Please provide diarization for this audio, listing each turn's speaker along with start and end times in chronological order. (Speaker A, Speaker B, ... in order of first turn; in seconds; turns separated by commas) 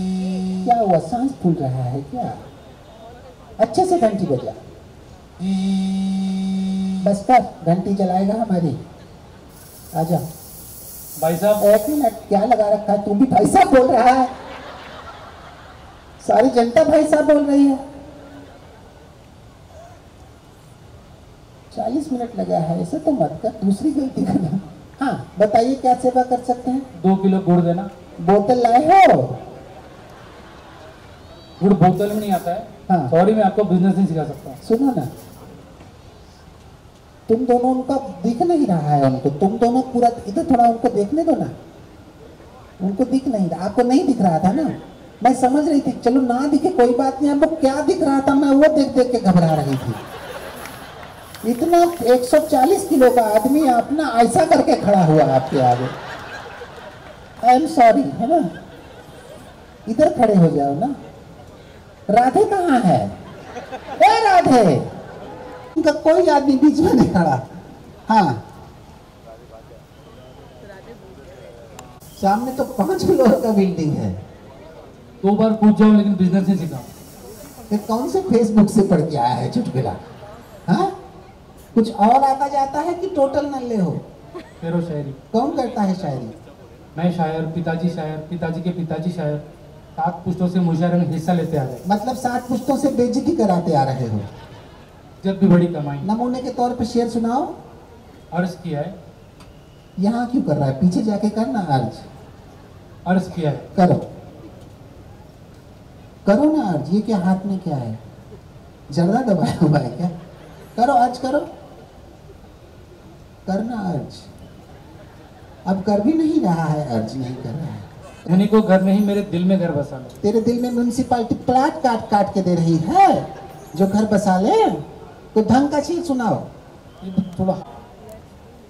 Speaker A: 0.6-2.4, Speaker A: 3.6-4.6, Speaker A: 7.0-8.8, Speaker A: 9.9-10.2, Speaker B: 11.2-11.6, Speaker A: 11.6-14.3, Speaker A: 16.2-17.8, Speaker A: 21.7-26.9, Speaker B: 26.9-27.9, Speaker A: 28.2-29.4, Speaker B: 31.6-34.6, Speaker A: 32.9-33.1, Speaker A: 34.6-35.1, Speaker A: 37.3-41.5, Speaker A: 42.8-50.0, Speaker A: 51.4-55.9, Speaker A: 57.4-58.5, Speaker A: 59.9-61.0, Speaker A: 62.1-63.1, Speaker A: 64.0-64.9, Speaker A: 65.7-67.5, Speaker A: 68.1-68.4, Speaker A: 72.2-74.2, Speaker B: 75.2-76.9, Speaker A: 77.7-80.0, Speaker A: 80.7-81.0, Speaker A: 81.7-84.0, Speaker B: 84.6-85.2, Speaker A: 85.3-86.3, Speaker B: 86.9-89.4, Speaker B: 90.0-91.8, Speaker A: 91.8-94.3, Speaker B: 95.2-96.1, Speaker A: 96.0-97.5, Speaker B: 98.3-99.0, Speaker A: 100.0-102.1, Speaker B: 103.0-103.7, Speaker A: 103.7-104.1, Speaker A: 106.2-108.0, Speaker A: 108.9-110.1, Speaker A: 110.8-111.5, Speaker A: 113.5-114.3, Speaker A: 115.7-117.8, Speaker B: 118.2-120.2, Speaker A: 120.2-124.8, Speaker A: 125.3-126.5, Speaker B: 127.0-127.6